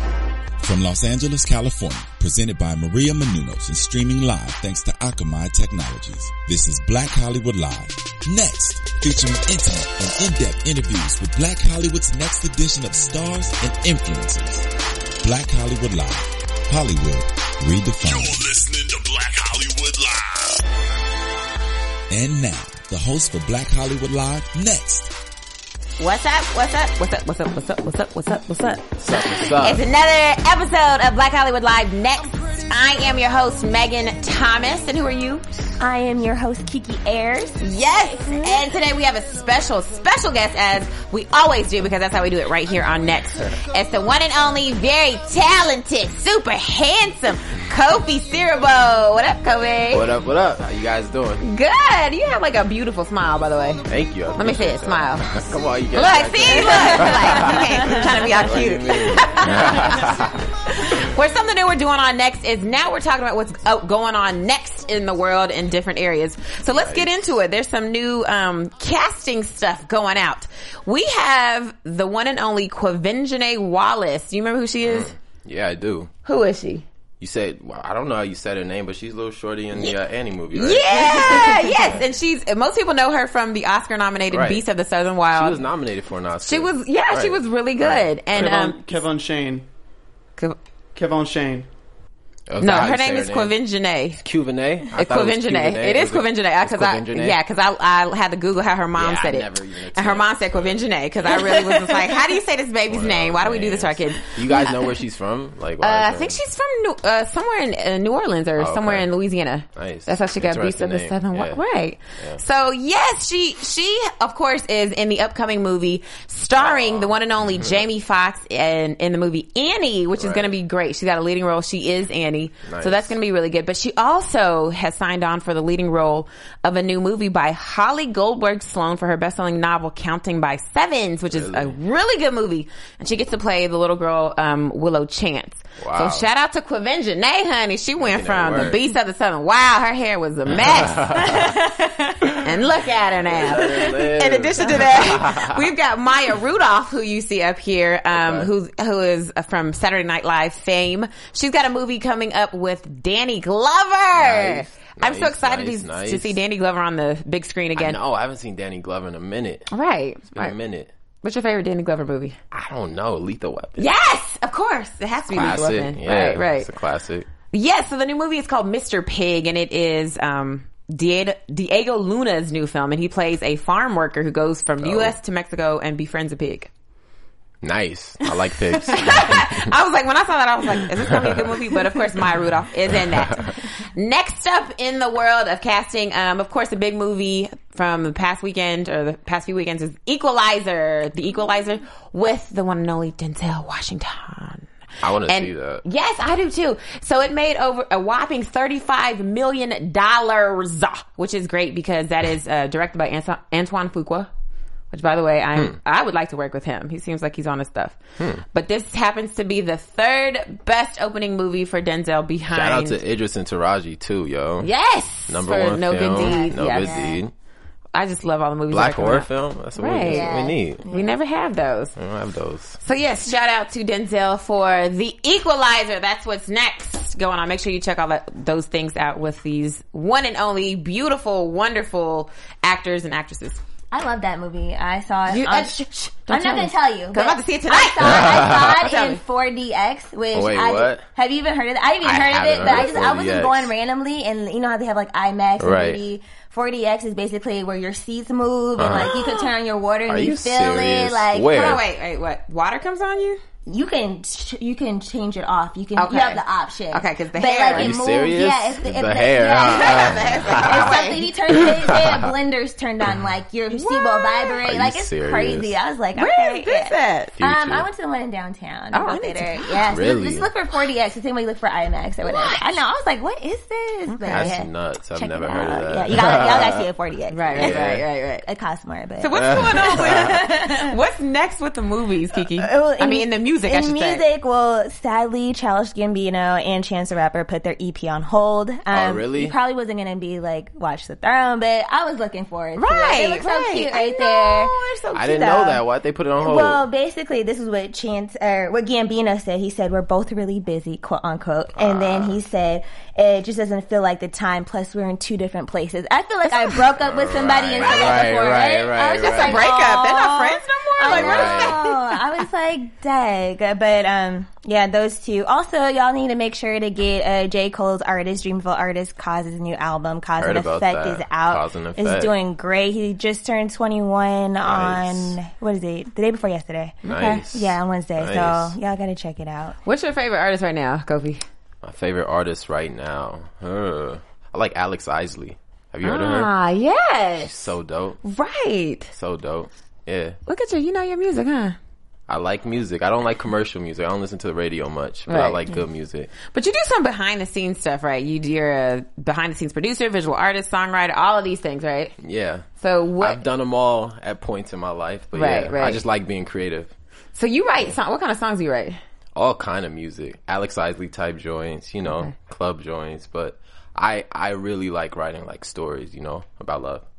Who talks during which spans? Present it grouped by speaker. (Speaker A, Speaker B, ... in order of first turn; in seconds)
Speaker A: 0.6-14.7, 15.2-18.5, 22.1-25.1
Speaker B: 18.0-20.6
Speaker C: 26.0-35.5, 37.6-50.1, 51.4-53.8, 54.4-55.3, 55.9-75.1, 76.2-76.8, 80.5-85.6, 86.5-89.0, 92.6-94.2, 94.9-104.9, 105.8-158.0, 159.7-160.6, 161.2-162.4, 163.8-166.7, 167.5-176.7, 178.9-194.7, 195.3-204.3, 204.9-208.0, 208.5-213.0, 214.6-217.2, 217.9-221.9, 222.8-233.6, 235.3-239.2, 242.6-243.0, 251.5-253.4, 255.9-258.0, 259.6-261.7, 263.7-264.6, 266.1-267.3, 268.9-270.0, 272.2-272.8, 274.1-274.5, 277.3-278.4, 279.2-284.2, 292.8-295.6, 306.5-306.9, 307.8-308.3, 309.2-312.2, 329.8-331.4, 336.0-337.6, 338.2-339.1, 340.5-341.8, 345.3-345.7, 346.5-352.1, 352.8-353.4, 355.3-356.0, 357.3-359.0
Speaker D: 29.0-29.8, 49.9-51.5, 53.9-60.4, 66.7-67.4, 74.8-76.1, 77.2-82.0, 84.3-84.6, 85.3-88.4, 92.5-93.5, 94.1-97.4, 98.9-101.6, 102.9-106.4, 108.6-109.1, 109.7-111.6, 116.5-117.8, 120.2-120.5, 122.7-123.2, 131.3-131.7, 135.8-136.3, 138.0-138.8, 140.6-141.6, 143.3-145.6, 148.1-148.5, 154.1-156.4, 157.8-159.7, 160.3-160.9, 162.5-163.9, 165.3-167.3, 174.8-175.2, 177.6-179.7, 180.9-181.6, 182.9-183.5, 195.0-195.8, 208.2-208.4, 212.5-214.7, 215.3-217.3, 218.7-220.8, 222.0-222.8, 238.0-238.8, 240.3-241.0, 242.0-243.7, 245.6-246.0, 248.8-249.1, 250.1-251.8, 257.7-262.3, 264.6-265.7, 267.4-267.9, 269.9-270.5, 274.3-276.9, 277.5-278.1, 279.3-280.4, 288.9-289.6, 295.1-296.8, 301.7-302.4, 307.0-309.7, 311.1-311.8, 320.4-322.3, 324.6-325.4, 327.1-328.8, 331.8-336.5, 337.4-338.2, 339.1-340.4, 342.3-346.3, 352.2-352.7, 353.2-356.9, 359.3-367.1
Speaker E: 35.8-37.6, 38.3-38.6, 56.5-58.0, 216.2-217.2, 220.0-221.1, 233.9-251.7, 253.7-277.8, 278.4-280.9, 282.5-294.7, 295.3-295.8, 296.4-329.8
Speaker F: 88.3-89.7, 90.9-91.7